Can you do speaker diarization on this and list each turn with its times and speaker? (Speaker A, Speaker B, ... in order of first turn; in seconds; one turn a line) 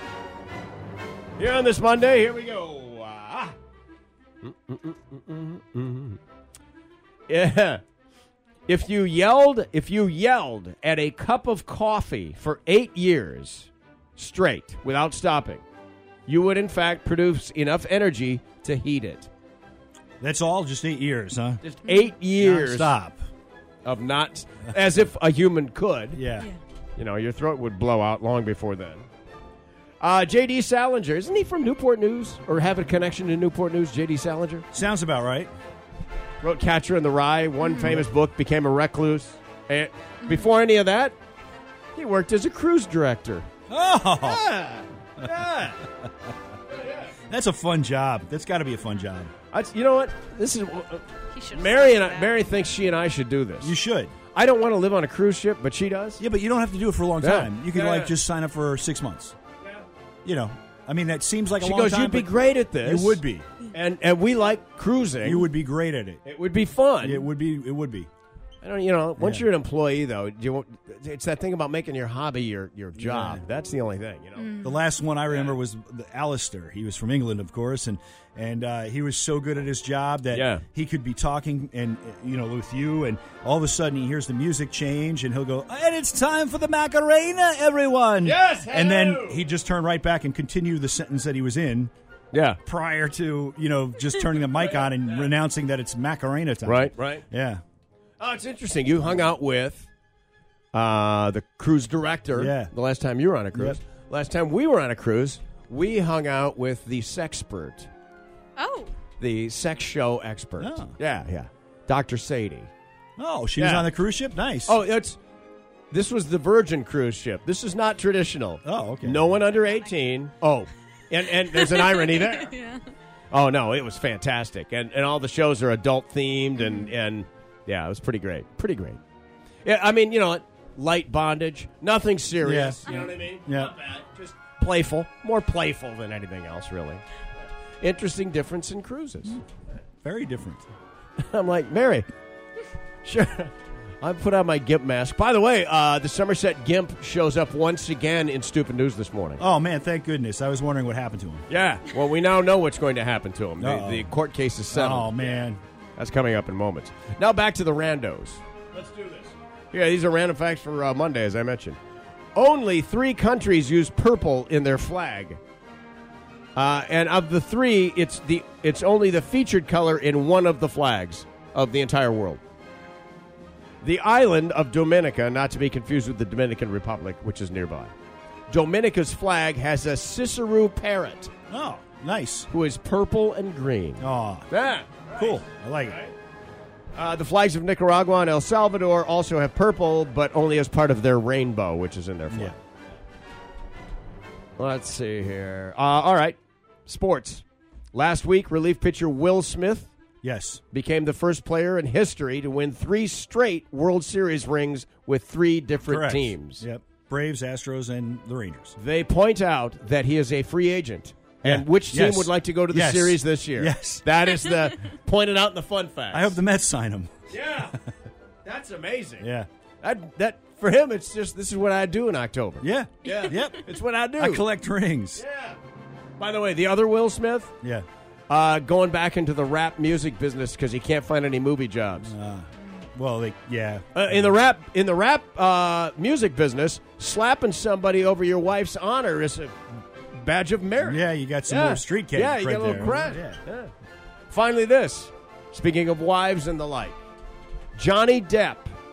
Speaker A: 1.4-3.5
Speaker A: 4.4-6.2
Speaker A: 7.3-7.8
Speaker A: 8.7-15.6
Speaker A: 16.3-19.3
Speaker B: 20.2-21.6
Speaker A: 21.6-22.9
Speaker B: 22.4-23.2
Speaker A: 23.9-26.2
Speaker B: 26.1-26.5
Speaker A: 27.0-29.1
Speaker A: 30.0-34.7
Speaker B: 34.7-35.5
Speaker A: 36.4-41.2
Speaker C: 37.6-38.0
Speaker C: 40.2-40.5
Speaker A: 42.0-43.5
Speaker B: 43.7-44.5
Speaker A: 44.2-45.9
Speaker A: 46.7-47.2
Speaker B: 47.3-49.3
Speaker A: 49.5-53.8
Speaker C: 51.3-52.4
Speaker B: 53.6-54.1
Speaker A: 54.3-56.2
Speaker B: 56.2-59.4
Speaker A: 57.2-58.2
Speaker B: 60.2-63.5
Speaker A: 61.6-65.5
Speaker B: 65.2-66.2
Speaker A: 66.2-67.3
Speaker B: 67.0-68.1
Speaker A: 68.6-74.7
Speaker B: 69.2-69.5
Speaker B: 73.0-73.4
Speaker C: 74.4-74.8
Speaker B: 74.6-91.9
Speaker A: 75.3-75.6
Speaker A: 80.3-80.6
Speaker A: 88.2-89.4
Speaker A: 92.3-92.6
Speaker B: 92.7-97.6
Speaker A: 94.5-95.3
Speaker A: 96.7-97.3
Speaker A: 98.2-99.9
Speaker A: 100.7-107.9
Speaker B: 102.3-102.7
Speaker B: 103.5-103.8
Speaker C: 108.6-108.9
Speaker A: 109.2-112.7
Speaker B: 110.6-110.9
Speaker B: 113.2-114.8
Speaker A: 113.6-113.9
Speaker A: 114.7-115.2
Speaker A: 115.9-122.5
Speaker B: 118.6-119.3
Speaker C: 121.7-122.9
Speaker A: 123.3-129.0
Speaker C: 126.6-126.9
Speaker A: 129.6-137.0
Speaker B: 132.4-133.8
Speaker A: 137.8-139.4
Speaker B: 140.0-140.7
Speaker A: 141.2-142.1
Speaker A: 143.0-149.4
Speaker B: 149.4-151.5
Speaker A: 151.5-161.8
Speaker B: 153.6-154.2
Speaker B: 154.7-155.6
Speaker A: 162.3-165.4
Speaker A: 166.6-172.4
Speaker A: 173.8-177.9
Speaker A: 178.5-181.3
Speaker B: 181.5-182.5
Speaker A: 182.5-186.2
Speaker B: 184.0-184.5
Speaker B: 185.2-186.0
Speaker A: 186.9-192.6
Speaker B: 192.3-192.6
Speaker A: 194.6-199.9
Speaker B: 200.2-200.6
Speaker A: 200.7-206.7
Speaker B: 205.8-208.8
Speaker A: 208.8-216.4
Speaker B: 211.4-214.0
Speaker B: 216.1-217.1
Speaker A: 217.3-217.8
Speaker A: 218.4-219.3
Speaker B: 219.2-219.5
Speaker A: 219.8-224.5
Speaker B: 222.6-225.2
Speaker C: 223.1-223.5
Speaker A: 225.2-225.6
Speaker A: 226.2-227.5
Speaker A: 228.3-232.1
Speaker B: 232.0-234.3
Speaker A: 233.9-243.7
Speaker B: 240.8-243.4
Speaker A: 244.3-247.0
Speaker A: 247.8-248.7